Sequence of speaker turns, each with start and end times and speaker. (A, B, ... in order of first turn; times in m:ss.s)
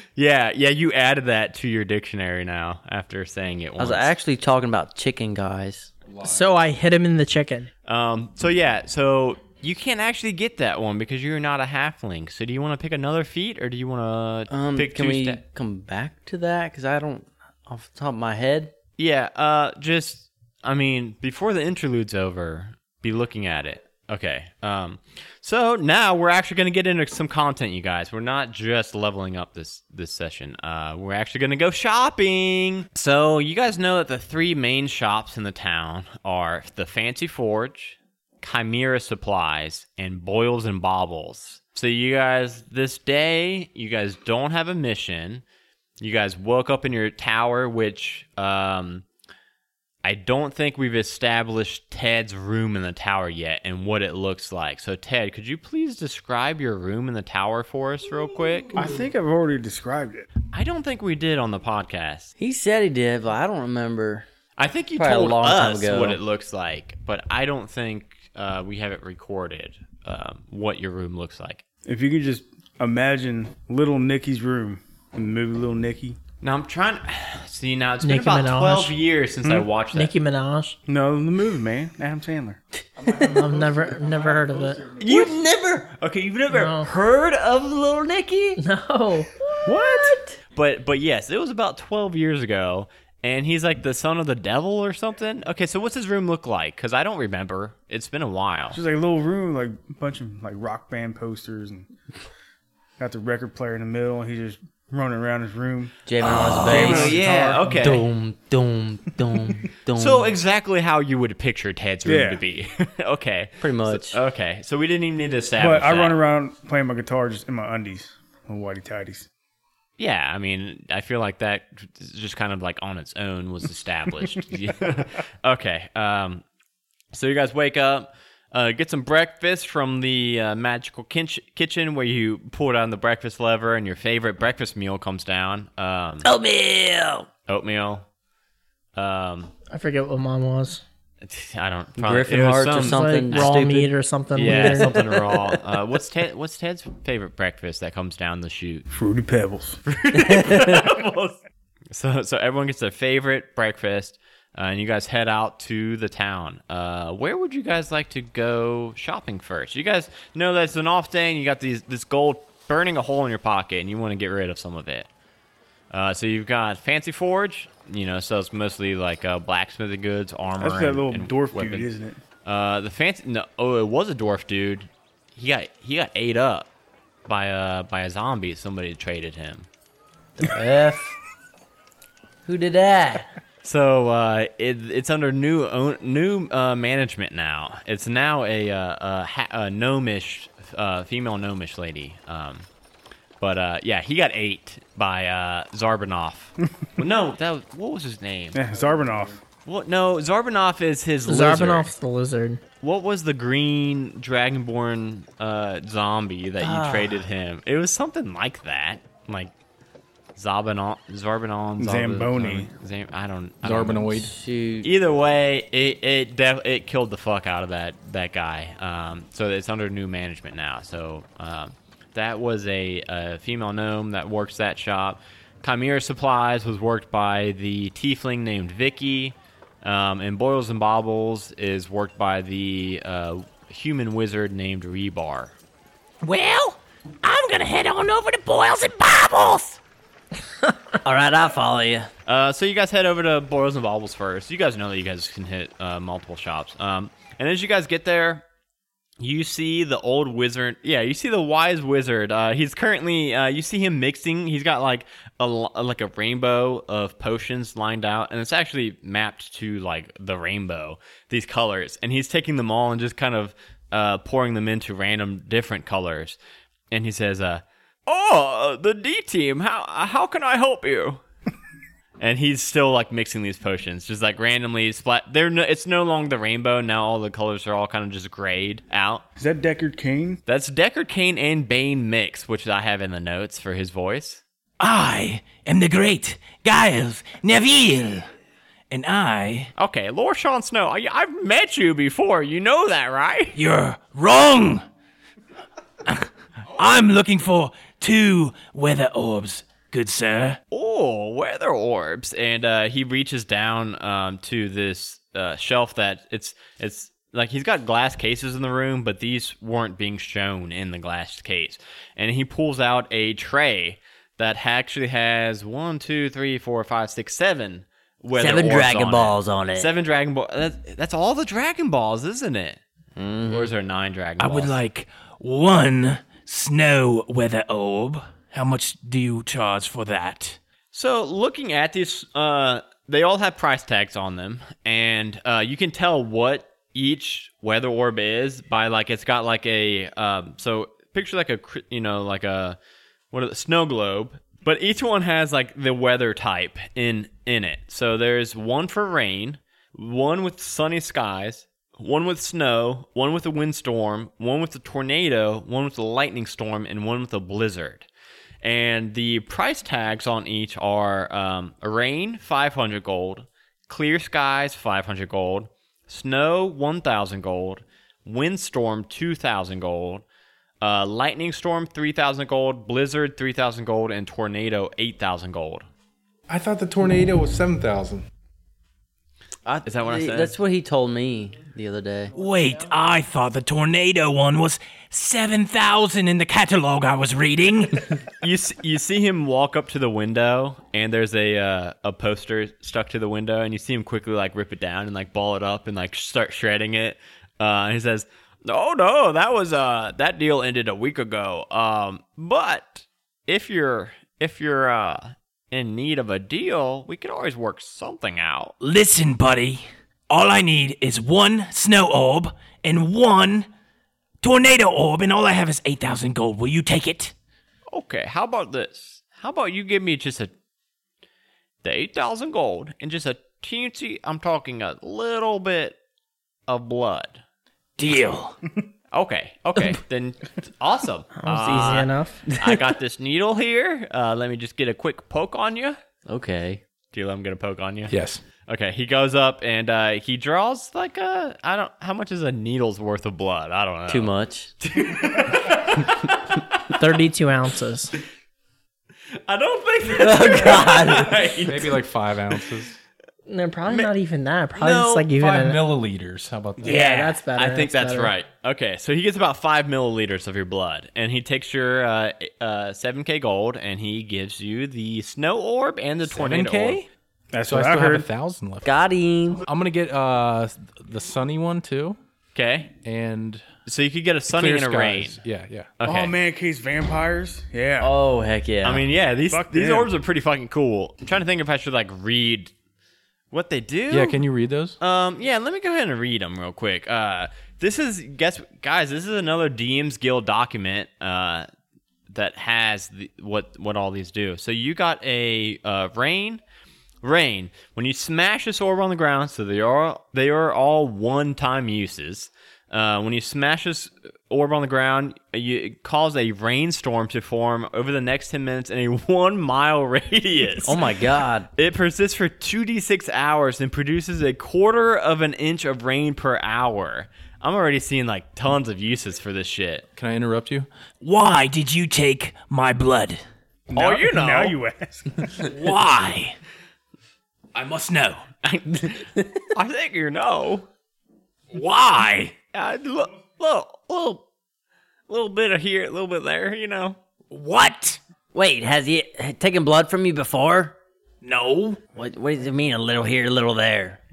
0:00.2-0:04.1 A
0:03.8-0:05.9 B
0:06.1-0:06.4 C
0:06.2-0:07.7 D
0:07.8-0:15.4 A
0:14.5-0:18.7 B
0:19.0-0:45.4 A
0:46.0-0:49.0 A
0:50.0-0:58.8 A
0:58.7-1:00.3 E
1:00.5-1:02.3 A
1:02.4-1:04.2 B
1:04.6-1:11.6 A
1:05.0-1:06.2 B
1:11.8-1:16.2 E
1:16.4-1:20.1 A
1:18.0-1:18.9 D
1:19.9-1:20.8 D
1:20.9-1:22.6 E
1:23.1-1:25.0 D
1:25.0-1:28.6 A
1:25.0-1:25.8 B
1:26.5-1:26.9 D
1:28.6-1:29.4 D
1:29.5-1:30.4 B
1:29.6-1:38.8 A
1:38.7-1:41.9 E
1:43.0-1:47.9 E
1:46.0-1:50.3 B
1:46.2-1:48.0 A
1:50.0-1:56.2 A
1:52.0-1:52.4 E
1:53.6-1:54.2 B
1:55.6-1:59.3 E
2:00.0-2:06.4 A
2:07.1-2:16.3 A
2:16.2-2:17.3 B
2:17.5-2:18.1 A
2:19.0-2:19.5 A
2:19.7-2:20.8 D
2:21.2-2:23.6 A
2:22.0-2:25.6 B
2:22.7-2:25.0 D
2:24.3-2:28.9 A
2:28.9-2:29.8 E
2:29.8-2:31.4 A
2:30.1-2:30.9 B
2:31.9-2:45.1 A
2:45.9-2:51.9 A
2:50.6-2:52.2 E
2:52.4-2:56.7 A
2:57.2-2:59.7 A
3:00.4-3:01.2 B
3:02.4-3:03.3 B
3:03.6-3:12.7 A
3:13.4-3:18.6 A
3:18.5-3:19.4 E
3:19.6-3:21.9 A
3:21.2-3:22.6 D
3:22.8-3:29.5 A
3:26.6-3:27.2 B
3:30.4-3:34.2 A
3:31.8-3:32.7 E
3:33.6-3:34.3 C
3:34.1-3:34.9 B
3:34.8-3:55.5 A
3:56.2-3:59.8 F
4:01.0-4:02.1 B
4:02.2-4:08.4 A
4:09.2-4:26.4 A
4:26.9-4:31.2 A
4:32.2-4:39.2 A
4:39.4-4:40.4 E
4:40.5-4:44.4 A
4:44.8-4:48.3 F
4:48.9-4:49.7 F
4:49.8-4:53.6 A
4:53.5-4:54.8 F
4:56.0-5:00.6 F
5:00.7-5:22.8 A
5:18.3-5:19.9 B
5:23.2-5:23.7 B
5:23.5-5:24.8 A
5:24.4-5:30.6 F
5:30.9-5:42.8 A
5:43.3-5:58.1 A
5:58.6-6:10.2 A
6:10.8-6:15.8 A
6:16.5-6:18.2 C
6:19.6-6:22.3 B
6:19.8-6:20.5 A
6:22.3-6:28.1 F
6:28.4-6:48.7 A
6:48.8-6:53.7 F
6:54.4-6:57.3 F
6:57.9-7:00.5 A
7:01.8-7:06.0 A
7:06.7-7:07.4 A
7:08.0-7:08.6 F
7:09.1-7:16.0 A
7:11.4-7:12.4 D
7:16.2-7:16.8 B
7:17.1-7:18.1 A
7:18.1-7:18.4 C
7:18.6-7:26.9 A
7:24.1-7:24.7 B
7:26.9-7:28.1 D
7:29.4-7:32.0 A
7:30.1-7:31.5 B
7:31.6-7:33.0 C
7:33.4-7:35.8 D
7:34.8-7:35.3 A
7:35.3-7:37.1 C
7:36.8-7:47.0 A
7:36.8-7:38.3 D
7:46.2-7:47.1 C
7:47.5-7:48.3 E
7:47.6-7:48.9 C
7:48.8-7:49.6 B
7:49.6-7:52.2 C
7:52.5-7:52.9 A
7:53.0-7:53.6 C
7:53.8-7:55.4 A
7:54.5-7:55.9 C
7:56.0-7:56.3 A
7:56.0-7:58.1 E
7:58.0-7:59.0 B
7:58.8-8:02.7 A
7:59.5-8:00.1 E
8:03.5-8:04.4 A
8:04.1-8:05.0 C
8:05.0-8:11.7 A
8:12.3-8:16.6 A
8:17.2-8:31.0 A
8:30.8-8:31.7 B
8:31.7-8:40.0 A
8:40.1-8:40.9 C
8:41.2-8:43.4 F
8:43.9-8:45.5 E
8:43.9-8:44.8 A
8:45.6-8:46.6 F
8:47.7-8:48.4 F
8:48.6-8:50.9 A
8:51.7-8:52.6 F
8:52.7-8:54.4 A
8:55.3-8:57.2 A
8:57.5-8:58.2 F
8:58.5-9:01.0 B
9:01.4-9:02.0 F
9:02.1-9:04.2 B